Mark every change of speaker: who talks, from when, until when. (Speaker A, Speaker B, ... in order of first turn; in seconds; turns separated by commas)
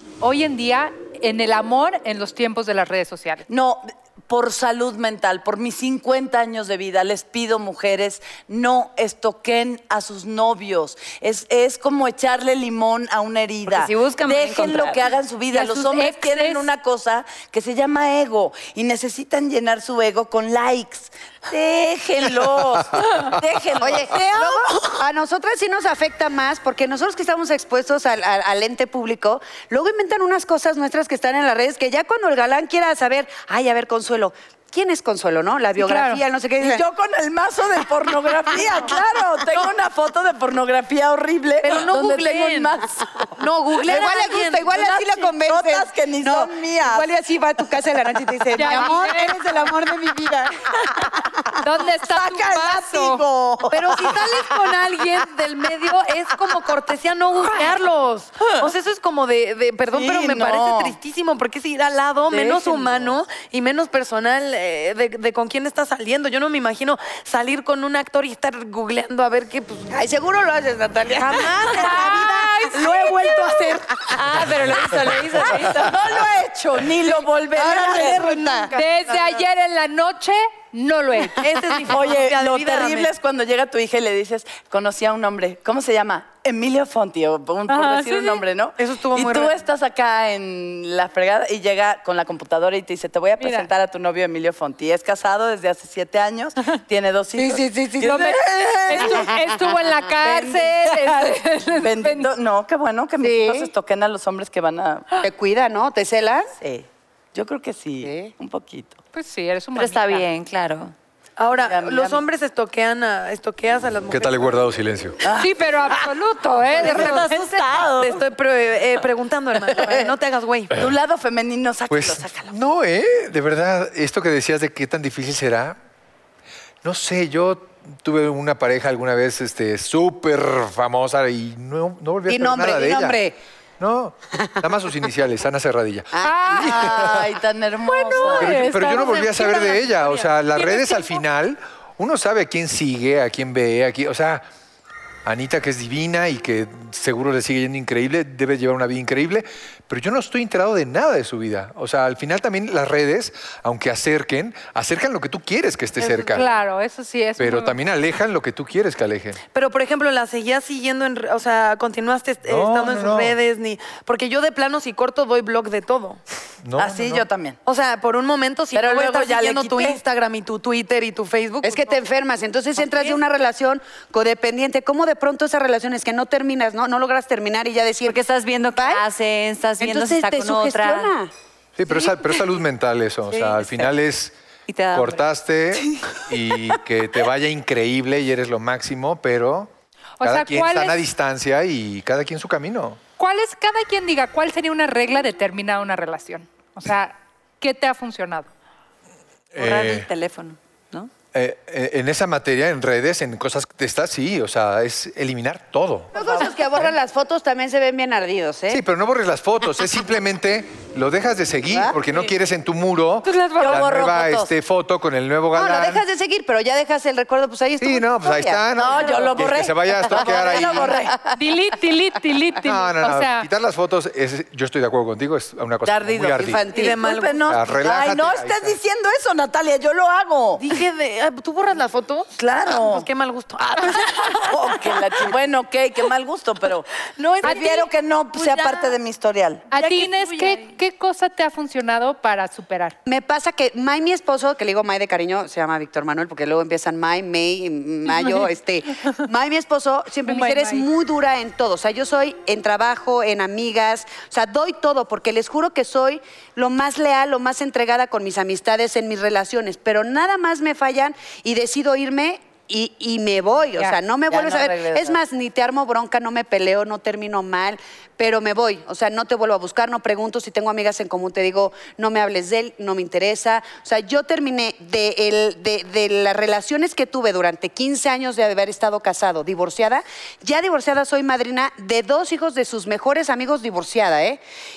Speaker A: 0.2-3.4, Speaker B: 3.5-25.0, Speaker C: 13.7-15.1, Speaker A: 15.5-16.6, Speaker D: 23.8-36.8, Speaker A: 35.8-36.2, Speaker B: 36.6-43.1, Speaker E: 41.6-42.8, Speaker E: 43.4-44.7, Speaker D: 43.9-51.5, Speaker B: 44.7-47.1, Speaker A: 48.5-49.4, Speaker A: 51.6-53.2, Speaker D: 52.1-52.9, Speaker B: 52.5-54.2, Speaker E: 53.7-69.9, Speaker B: 59.9-61.0, Speaker B: 62.2-63.2, Speaker D: 69.9-72.7, Speaker E: 71.1-75.8, Speaker A: 71.7-73.4, Speaker C: 74.1-76.0, Speaker B: 75.8-78.3, Speaker D: 77.6-78.7, Speaker E: 77.8-79.2, Speaker A: 78.7-81.4, Speaker E: 81.4-83.1, Speaker B: 81.8-99.3, Speaker A: 87.7-88.4, Speaker E: 88.8-89.5, Speaker A: 93.4-93.7, Speaker D: 97.3-98.4, Speaker A: 98.9-102.3, Speaker B: 100.2-105.1, Speaker D: 103.2-103.7, Speaker D: 105.2-106.5, Speaker B: 106.6-109.0, Speaker D: 108.0-108.3, Speaker A: 109.1-110.3, Speaker C: 109.7-110.9, Speaker E: 111.4-114.6, Speaker B: 111.6-112.2, Speaker F: 114.1-115.2, Speaker B: 115.2-116.0, Speaker A: 115.4-117.7, Speaker C: 116.7-118.2, Speaker E: 116.8-117.3, Speaker E: 118.0-120.7, Speaker B: 119.7-120.1, Speaker B: 120.7-122.5, Speaker F: 121.9-125.8, Speaker F: 126.8-133.2, Speaker D: 132.3-133.4, Speaker F: 133.8-137.3, Speaker D: 134.3-134.6, Speaker A: 136.2-137.1, Speaker B: 136.5-138.8, Speaker A: 137.8-141.2, Speaker F: 138.3-144.4, Speaker F: 145.2-156.5, Speaker E: 156.0-156.4, Speaker A: 156.3-157.8, Speaker F: 157.4-159.4, Speaker E: 159.5-166.2, Speaker F: 162.4-163.4, Speaker F: 166.6-167.3, Speaker B: 166.8-167.6, Speaker E: 167.7-172.0, Speaker B: 168.7-170.0, Speaker D: 171.6-178.2, Speaker E: 172.8-173.2, Speaker C: 178.0-181.1, Speaker D: 178.7-179.0, Speaker D: 179.8-181.3, Speaker F: 181.8-184.4, Speaker C: 181.9-182.4, Speaker C: 183.3-183.9, Speaker C: 184.7-185.2, Speaker F: 184.9-189.7, Speaker A: 190.2-191.0, Speaker F: 190.2-193.0, Speaker A: 193.2-198.5, Speaker F: 199.5-200.1, Speaker C: 199.6-201.1, Speaker F: 201.3-206.1, Speaker B: 206.1-206.6, Speaker D: 206.1-208.8, Speaker F: 208.7-216.0, Speaker D: 211.7-212.0, Speaker A: 213.2-213.9, Speaker B: 213.6-214.5, Speaker D: 215.6-219.4, Speaker F: 217.8-221.0, Speaker B: 218.7-221.2, Speaker D: 220.1-221.3, Speaker A: 221.3-223.5, Speaker F: 222.6-226.7, Speaker B: 225.8-230.6, Speaker D: 226.4-227.0, Speaker E: 226.7-227.5, Speaker F: 227.5-228.8, Speaker E: 230.6-235.3, Speaker B: 232.4-233.1, Speaker B: 234.4-236.9, Speaker E: 237.2-239.0, Speaker B: 237.4-239.6, Speaker A: 239.7-242.9, Speaker E: 239.7-240.8, Speaker D: 243.1-284.4, Speaker A: 248.1-248.4, Speaker A: 250.3-250.9, Speaker B: 264.3-265.2